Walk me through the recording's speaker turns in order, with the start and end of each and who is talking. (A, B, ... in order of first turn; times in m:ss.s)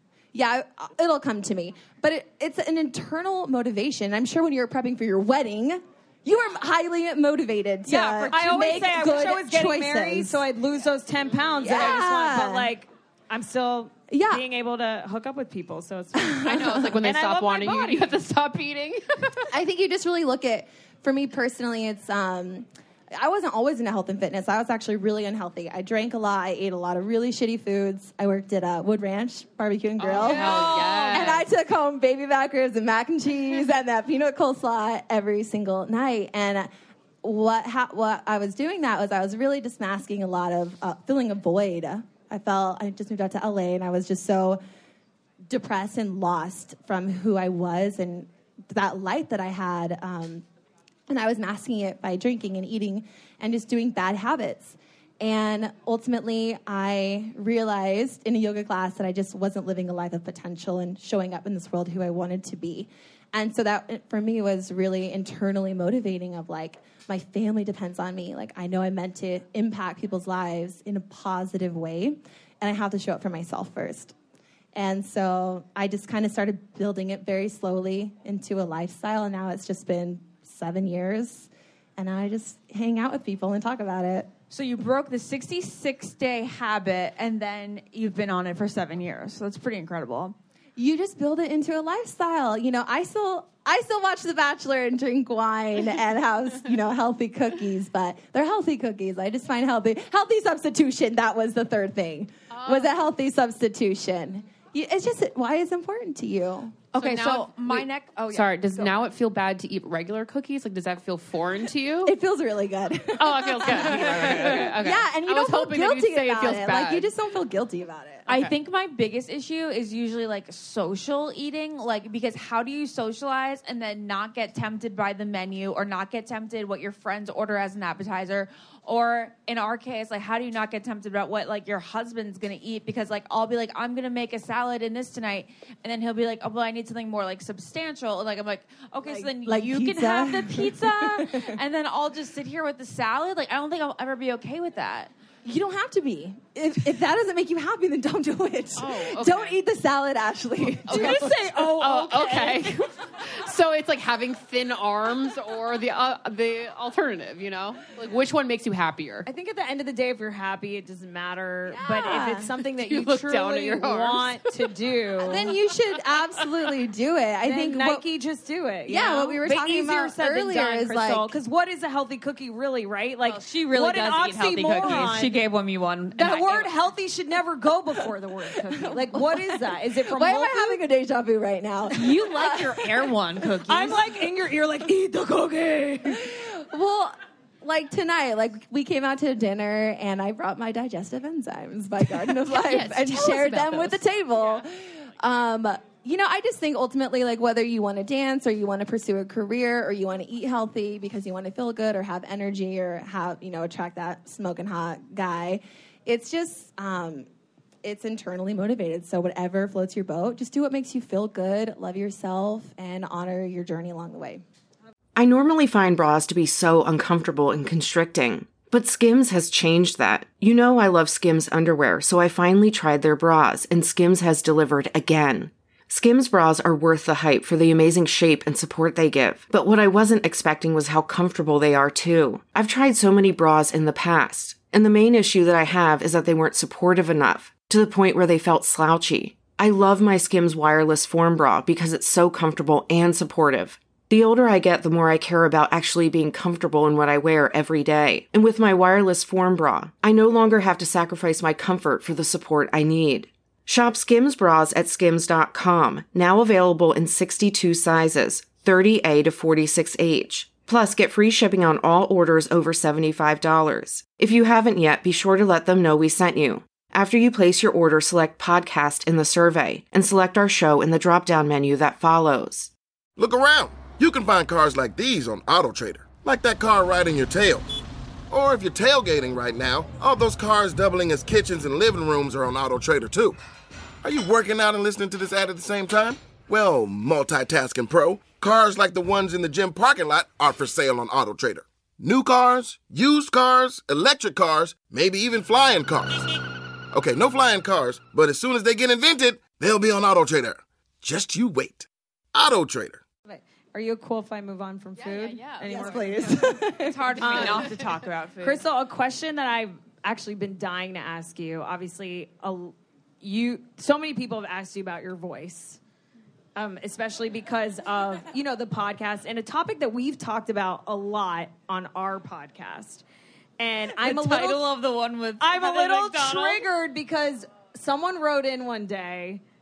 0:00.3-0:10.5 A
0:07.9-0:18.2 B
0:08.0-0:08.3 C
0:11.6-0:12.7 A
0:14.1-0:14.5 A
0:16.1-0:17.0 A
0:16.4-0:19.5 D
0:19.5-0:36.7 A
0:30.0-0:31.5 D
0:30.2-0:31.4 C
0:37.2-0:44.6 A
0:45.5-0:50.4 A
0:51.1-1:14.1 A
1:14.8-1:24.3 A
1:24.5-1:30.4 C
1:30.8-1:46.9 A
1:46.9-1:49.0 C
1:46.9-1:52.2 D
1:52.0-1:58.3 A
1:53.2-1:57.1 D
1:53.9-1:54.3 C
1:58.3-2:25.1 C
2:19.1-2:21.5 A
2:25.4-2:31.3 A
2:28.8-2:29.6 D
2:30.8-2:39.3 D
2:30.9-2:32.8 B
2:39.3-2:45.6 B
2:41.7-2:42.5 A
2:42.8-2:44.4 D
2:45.2-2:48.0 A
2:47.4-2:55.4 B
2:48.9-2:51.3 A
2:53.3-2:56.7 C
2:56.2-3:00.8 B
2:58.6-3:03.1 A
3:01.9-3:04.0 C
3:03.7-3:06.2 B
3:06.1-3:27.3 A
3:12.6-3:14.0 C
3:27.8-3:34.4 A
3:35.2-4:32.7 E
4:33.2-4:37.7 F
4:38.3-4:43.4 F
4:44.0-4:56.2 F
4:56.9-5:03.0 F
5:03.3-5:06.6 B
5:05.0-5:08.6 C
5:05.7-5:07.5 A
5:07.2-5:07.8 B
5:08.4-5:15.8 B
5:16.6-5:23.0 B
5:23.6-5:24.7 B
5:24.0-5:26.6 C
5:25.4-5:29.4 B